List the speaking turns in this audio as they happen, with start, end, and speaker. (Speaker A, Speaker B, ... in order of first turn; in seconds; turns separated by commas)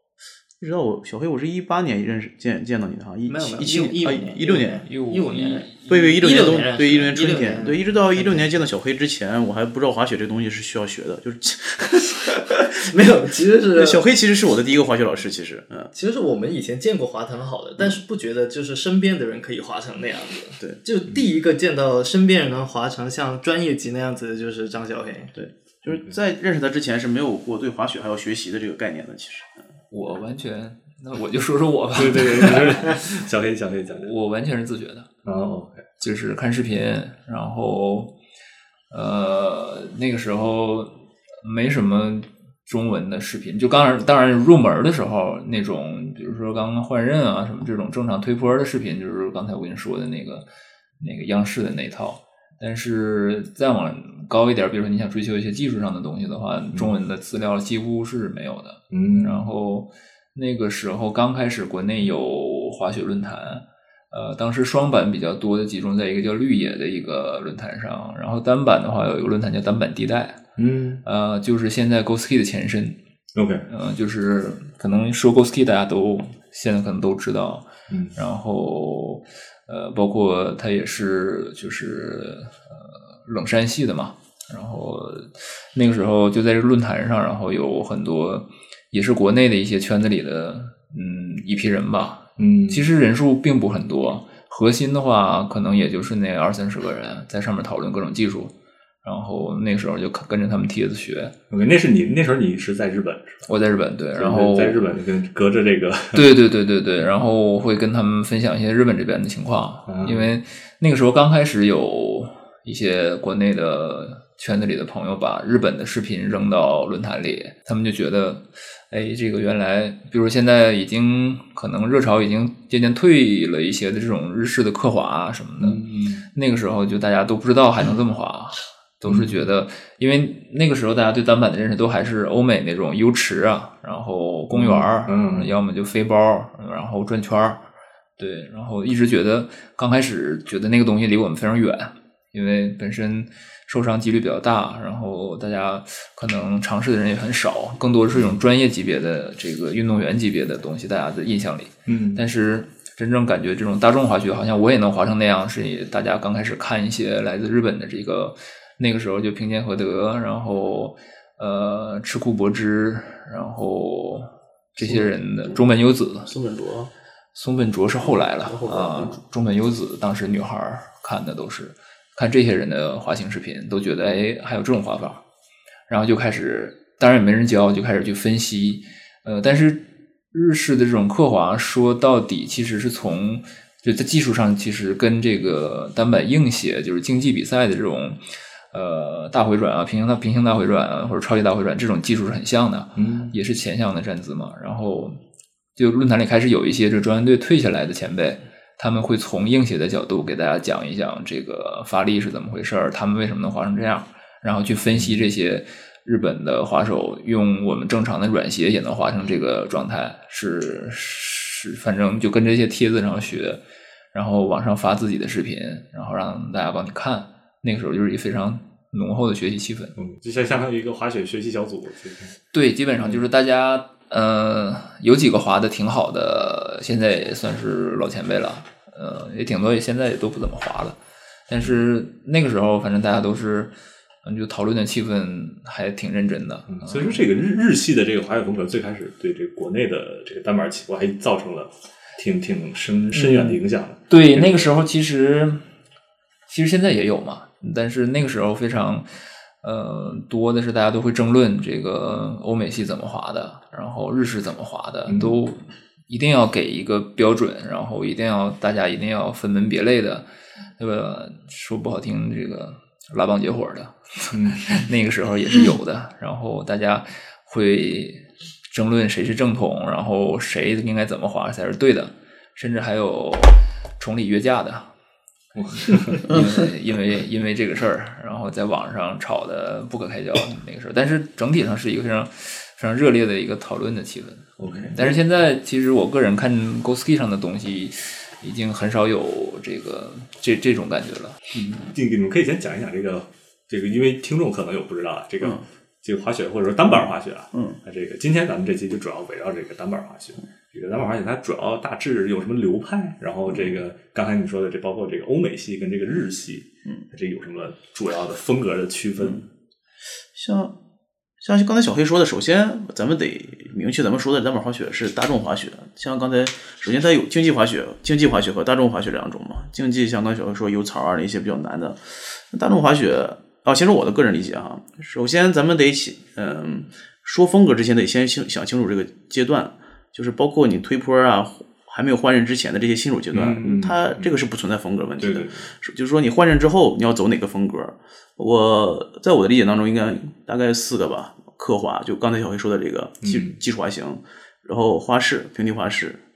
Speaker A: 0.6-4.8, Speaker B: 3.3-8.5, Speaker C: 4.4-6.2, Speaker A: 5.9-12.7, Speaker B: 12.9-14.0, Speaker A: 13.7-15.9, Speaker B: 15.9-25.3, Speaker A: 25.4-29.5, Speaker D: 25.9-26.1, Speaker C: 29.9-33.0, Speaker D: 31.9-34.1, Speaker C: 33.9-35.1, Speaker D: 35.2-35.8, Speaker C: 36.0-38.1, Speaker C: 38.9-50.5, Speaker C: 51.0-70.4, Speaker D: 58.9-59.5, Speaker D: 70.6-71.0, Speaker C: 71.0-73.0, Speaker D: 73.3-73.7, Speaker C: 73.7-98.5, Speaker D: 77.9-78.2, Speaker D: 92.4-92.9, Speaker C: 99.0-101.3, Speaker D: 101.5-103.5, Speaker C: 103.5-104.8, Speaker D: 104.2-106.2, Speaker C: 106.1-125.8, Speaker D: 109.9-110.3, Speaker D: 125.6-126.2, Speaker C: 126.3-137.6, Speaker D: 129.1-129.4, Speaker D: 134.5-135.5, Speaker C: 138.2-166.3, Speaker D: 148.1-148.4, Speaker D: 151.9-152.2, Speaker A: 164.8-165.6, Speaker A: 166.3-166.9, Speaker C: 167.3-175.2, Speaker A: 168.4-169.2, Speaker C: 175.9-195.2, Speaker D: 192.9-193.3, Speaker C: 195.8-213.6, Speaker D: 205.0-205.3, Speaker C: 214.1-219.9, Speaker D: 219.9-222.3, Speaker C: 222.5-231.0, Speaker C: 231.5-233.7, Speaker C: 234.2-237.2, Speaker D: 236.7-244.7, Speaker C: 243.2-243.6, Speaker C: 244.1-245.6, Speaker C: 246.5-249.1, Speaker C: 249.6-260.2, Speaker D: 255.1-255.4, Speaker C: 260.8-274.9, Speaker D: 264.3-264.8, Speaker D: 275.5-276.3, Speaker C: 275.9-291.4, Speaker D: 284.6-284.9, Speaker D: 291.5-309.5, Speaker A: 310.3-310.8, Speaker A: 311.4-346.2, Speaker D: 333.3-334.3, Speaker D: 335.2-335.7, Speaker D: 343.2-343.6